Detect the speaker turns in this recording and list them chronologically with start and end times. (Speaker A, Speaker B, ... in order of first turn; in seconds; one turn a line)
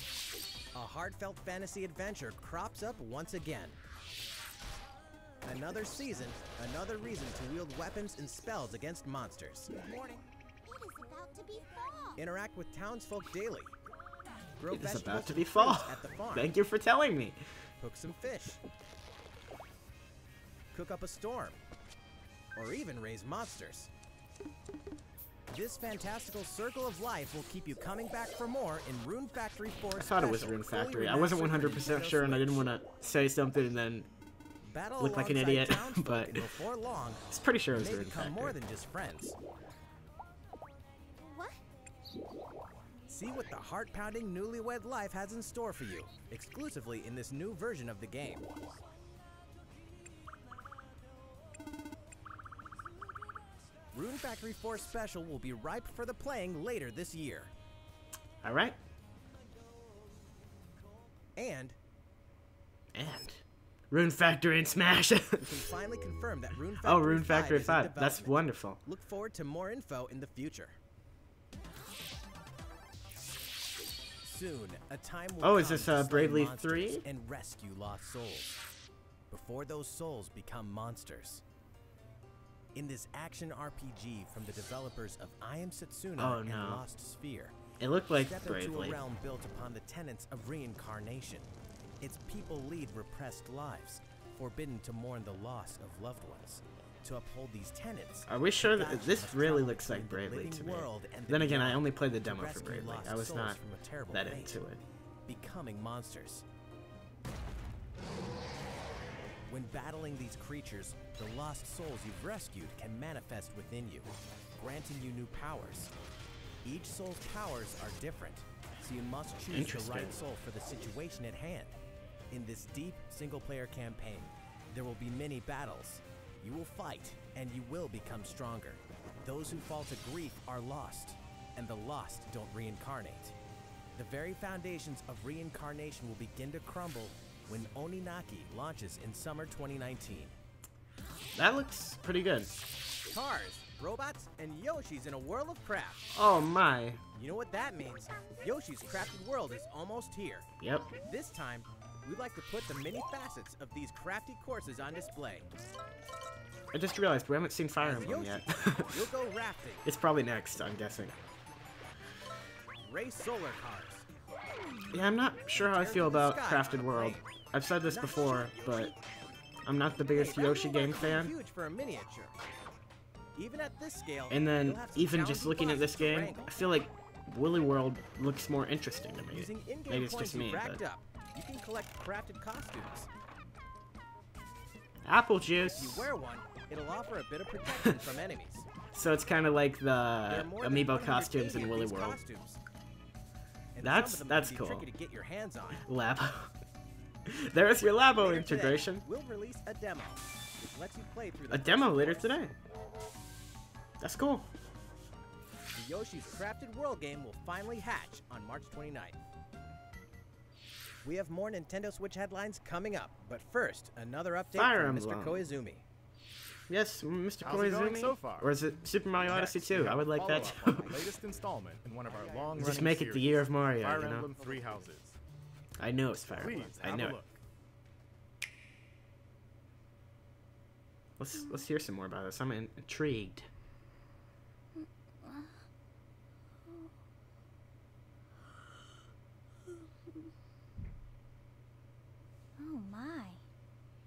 Speaker A: 0.7-3.8
Speaker A: 5.5-10.0
Speaker B: 9.8-12.2
Speaker A: 12.2-13.8
Speaker A: 14.6-16.5
Speaker C: 14.7-17.4
Speaker A: 17.8-18.6
Speaker A: 20.7-21.6
Speaker A: 22.6-23.9
Speaker A: 25.5-32.5
Speaker C: 29.9-34.1
Speaker A: 34.6-37.2
Speaker C: 35.0-36.5
Speaker C: 37.3-38.6
Speaker A: 37.8-39.4
Speaker B: 41.2-41.6
Speaker A: 43.1-48.8
Speaker A: 53.9-57.5
Speaker C: 58.4-58.8
Speaker A: 61.4-61.8
Speaker C: 62.9-65.6
Speaker A: 65.4-70.8
Speaker C: 66.8-68.8
Speaker A: 74.2-78.6
Speaker C: 75.4-77.0
Speaker A: 79.3-81.4
Speaker A: 82.8-87.5
Speaker C: 86.2-86.8
Speaker C: 87.8-89.0
Speaker A: 88.1-91.5
Speaker A: 92.0-104.6
Speaker C: 98.3-103.6
Speaker C: 104.1-104.8
Speaker A: 105.3-106.5
Speaker A: 109.5-115.9
Speaker A: 116.6-121.8
Speaker C: 119.5-120.2
Speaker A: 122.3-133.3
Speaker A: 133.9-140.3
Speaker C: 141.3-142.5
Speaker A: 143.1-146.1
Speaker C: 146.2-147.0
Speaker A: 147.2-150.5
Speaker C: 150.6-150.9
Speaker A: 151.0-155.5
Speaker C: 156.7-159.1
Speaker A: 157.8-159.9
Speaker C: 159.8-161.2
Speaker A: 162.8-164.1
Speaker C: 164.9-168.9
Speaker A: 165.5-167.3
Speaker A: 167.8-168.8
Speaker C: 169.6-171.3
Speaker A: 170.1-172.4
Speaker A: 173.3-176.6
Speaker C: 174.3-180.8
Speaker A: 179.3-183.1
Speaker C: 185.1-186.1
Speaker A: 185.6-188.7
Speaker C: 188.9-192.2
Speaker A: 190.3-192.6
Speaker A: 193.8-195.8
Speaker C: 193.8-194.9
Speaker C: 195.8-196.5
Speaker C: 197.3-199.1
Speaker A: 198.1-202.4
Speaker C: 201.5-202.5
Speaker C: 204.0-204.5
Speaker A: 205.8-209.2
Speaker A: 211.0-215.8
Speaker C: 214.5-215.5
Speaker C: 216.7-221.1
Speaker D: 217.4-218.6
Speaker D: 219.2-225.2
Speaker C: 222.6-224.3
Speaker C: 225.8-227.2
Speaker D: 226.3-227.4
Speaker C: 231.2-233.5
Speaker B: 231.4-231.7
Speaker B: 234.8-235.6
Speaker B: 236.7-236.9
Speaker B: 239.7-240.3
Speaker B: 242.6-243.4